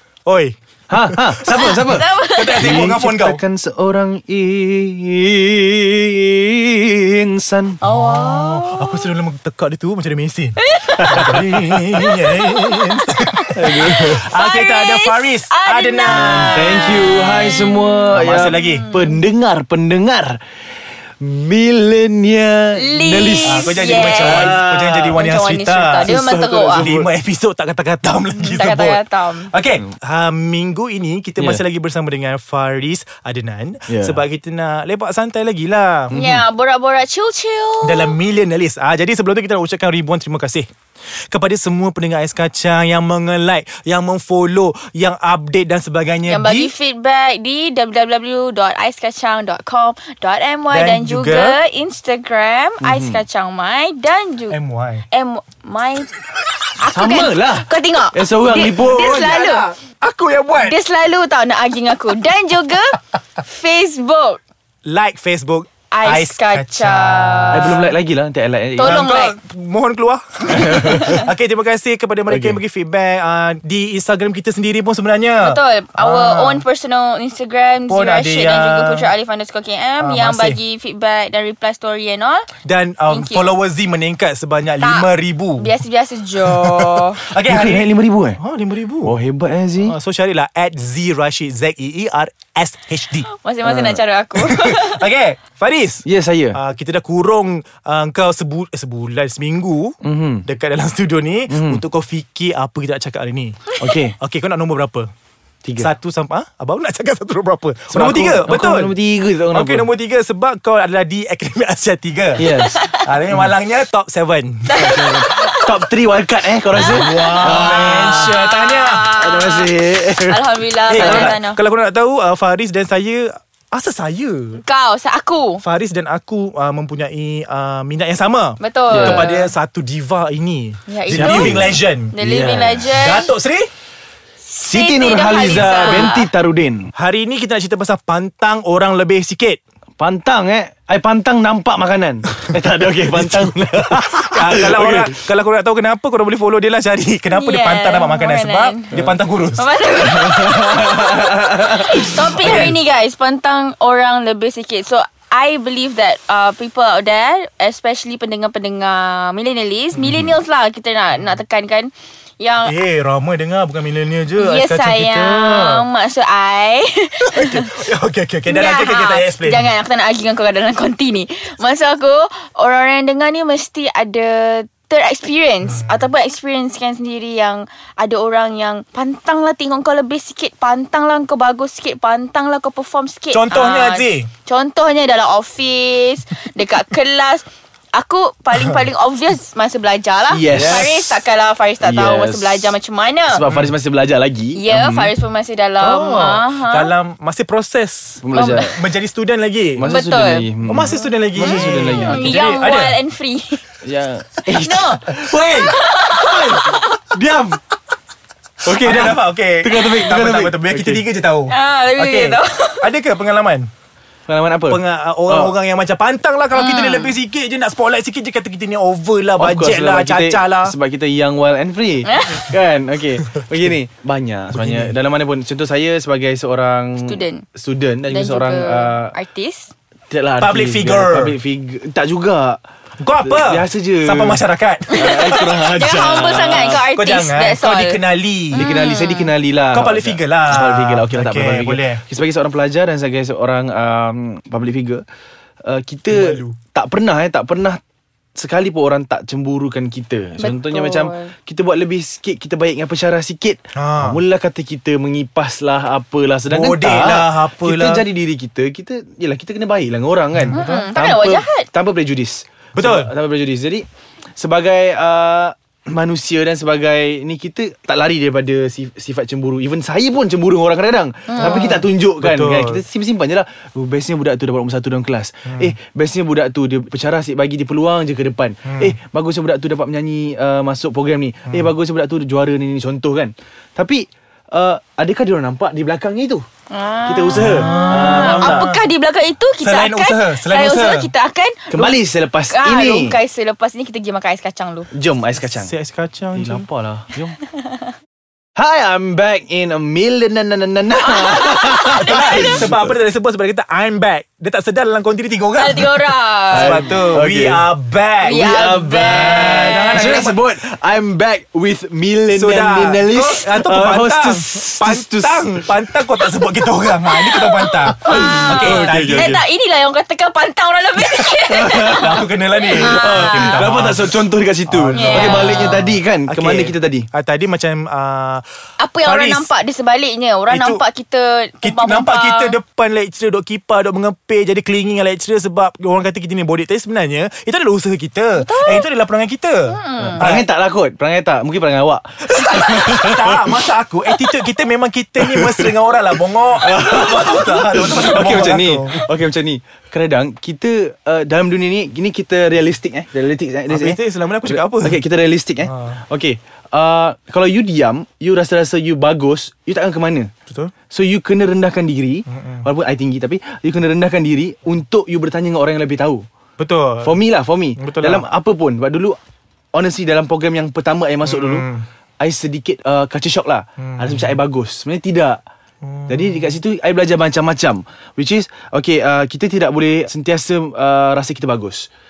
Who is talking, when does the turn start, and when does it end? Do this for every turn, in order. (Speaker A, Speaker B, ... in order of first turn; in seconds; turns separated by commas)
Speaker A: 0.3-3.4, Speaker B: 0.9-7.8, Speaker C: 1.5-2.7, Speaker C: 7.8-9.1, Speaker A: 7.9-16.8, Speaker C: 10.6-11.4, Speaker B: 11.1-11.8, Speaker C: 12.0-12.8, Speaker B: 13.6-14.2, Speaker C: 14.1-17.9, Speaker B: 16.1-20.4, Speaker A: 18.1-18.9, Speaker C: 18.6-19.2, Speaker B: 21.2-25.2, Speaker C: 22.8-24.6, Speaker A: 23.4-36.1, Speaker C: 25.1-26.9, Speaker B: 26.1-27.1, Speaker C: 28.4-29.5, Speaker B: 31.4-31.6, Speaker B: 33.9-34.2, Speaker B: 36.1-36.4, Speaker C: 36.1-38.1, Speaker A: 37.8-40.7, Speaker A: 41.3-46.7, Speaker C: 46.3-54.6, Speaker A: 50.7-51.6, Speaker B: 52.8-53.2, Speaker A: 54.5-55.0, Speaker C: 55.1-56.1, Speaker C: 56.8-59.7, Speaker B: 56.9-59.2, Speaker A: 58.5-60.8, Speaker C: 60.6-64.4, Speaker A: 64.8-67.9, Speaker C: 65.9-67.8, Speaker B: 67.5-69.0, Speaker C: 68.8-69.4, Speaker A: 68.8-76.6, Speaker B: 70.5-71.2, Speaker B: 72.3-72.6, Speaker C: 75.4-82.5, Speaker A: 77.9-79.1, Speaker A: 80.0-80.6, Speaker A: 82.6-85.8, Speaker C: 83.1-83.5, Speaker C: 84.8-85.1, Speaker C: 85.6-87.2, Speaker A: 86.5-89.2, Speaker B: 87.5-88.4, Speaker B: 89.0-89.9, Speaker A: 89.8-93.3, Speaker C: 93.2-95.0, Speaker B: 93.7-94.0, Speaker A: 94.4-105.1, Speaker B: 96.0-96.6, Speaker B: 100.0-100.5, Speaker B: 101.5-101.8, Speaker B: 103.8-104.2, Speaker A: 105.8-108.9, Speaker B: 107.9-109.9, Speaker A: 109.5-115.0, Speaker B: 112.4-112.8, Speaker C: 112.5-113.0, Speaker C: 114.7-115.7, Speaker B: 114.8-118.4, Speaker A: 116.8-119.1, Speaker C: 116.8-121.6, Speaker B: 119.2-121.4, Speaker A: 120.9-124.6, Speaker C: 124.6-125.6, Speaker A: 125.6-132.2, Speaker C: 128.6-129.5, Speaker B: 128.9-129.3, Speaker C: 130.9-131.6, Speaker B: 131.1-132.9, Speaker C: 132.1-133.3, Speaker A: 132.9-133.7, Speaker C: 134.5-136.3, Speaker B: 134.6-136.9, Speaker A: 135.5-136.1, Speaker A: 136.9-139.6, Speaker B: 140.0-145.1, Speaker A: 143.0-149.8, Speaker C: 147.3-148.9, Speaker C: 149.6-162.8, Speaker B: 150.0-151.8, Speaker A: 152.2-152.8, Speaker A: 159.9-160.3, Speaker A: 162.6-165.9, Speaker C: 164.4-167.8, Speaker A: 167.2-169.7, Speaker C: 168.5-193.4, Speaker A: 183.3-184.3, Speaker A: 188.5-188.8, Speaker B: 190.3-190.9, Speaker A: 190.5-191.2, Speaker B: 191.8-192.8, Speaker B: 193.3-195.1, Speaker A: 193.4-193.7, Speaker C: 194.5-196.9, Speaker A: 195.8-199.9, Speaker B: 198.2-198.8, Speaker C: 198.3-198.7, Speaker B: 199.8-202.5, Speaker C: 199.8-203.7, Speaker A: 200.7-203.0, Speaker B: 203.8-205.2, Speaker C: 204.4-207.0, Speaker A: 205.1-206.8, Speaker B: 207.1-207.6, Speaker A: 208.6-213.7, Speaker B: 208.7-211.0, Speaker C: 211.5-212.9, Speaker B: 214.3-215.5, Speaker A: 214.7-220.8, Speaker C: 216.5-217.2, Speaker B: 219.4-229.2, Speaker C: 222.1-222.6, Speaker A: 224.5-224.9, Speaker C: 227.0-227.4, Speaker C: 228.1-229.7, Speaker B: 230.1-232.6, Speaker A: 230.4-231.4, Speaker A: 233.0-235.2, Speaker B: 233.2-236.8, Speaker C: 234.9-238.0, Speaker A: 236.2-238.7, Speaker C: 238.5-239.3, Speaker B: 238.6-245.0, Speaker A: 239.7-242.0, Speaker B: 245.6-247.8, Speaker A: 246.1-246.6, Speaker B: 248.4-263.9, Speaker C: 250.4-251.3, Speaker A: 253.7-254.2, Speaker A: 256.5-258.1, Speaker A: 260.3-260.6, Speaker C: 260.5-261.7, Speaker A: 262.8-263.1, Speaker B: 264.4-286.4, Speaker C: 271.3-271.9, Speaker A: 271.4-272.8, Speaker A: 275.5-275.8, Speaker A: 278.7-278.9, Speaker C: 286.7-292.0, Speaker B: 287.1-288.7, Speaker A: 287.3-288.9, Speaker A: 289.6-291.1, Speaker B: 291.7-293.2, Speaker C: 292.5-294.9, Speaker B: 294.9-295.7, Speaker A: 295.4-296.7, Speaker B: 296.4-297.4, Speaker B: 298.6-302.9, Speaker C: 301.1-302.6, Speaker A: 301.7-310.4, Speaker C: 305.6-306.9, Speaker B: 306.5-307.7, Speaker C: 308.2-310.2, Speaker B: 308.2-315.7, Speaker A: 312.3-319.4, Speaker B: 317.9-319.4, Speaker C: 317.9-323.7, Speaker B: 321.5-327.1, Speaker A: 321.8-328.5, Speaker C: 324.9-325.8, Speaker C: 328.8-332.6, Speaker A: 329.0-329.5, Speaker A: 330.5-330.8, Speaker A: 331.6-340.5, Speaker C: 338.4-338.9, Speaker C: 339.7-340.2, Speaker B: 340.2-343.6, Speaker A: 342.2-349.0, Speaker B: 344.1-344.4, Speaker B: 345.2-345.7, Speaker B: 346.6-360.3, Speaker A: 353.7-355.0, Speaker A: 355.7-356.0, Speaker B: 360.9-366.2, Speaker A: 362.3-362.7, Speaker A: 366.6-367.1, Speaker B: 367.0-369.2, Speaker A: 367.8-368.2, Speaker B: 369.7-371.7, Speaker A: 371.2-371.9, Speaker B: 372.2-375.4, Speaker A: 373.8-374.4, Speaker A: 375.8-376.6, Speaker B: 376.1-381.9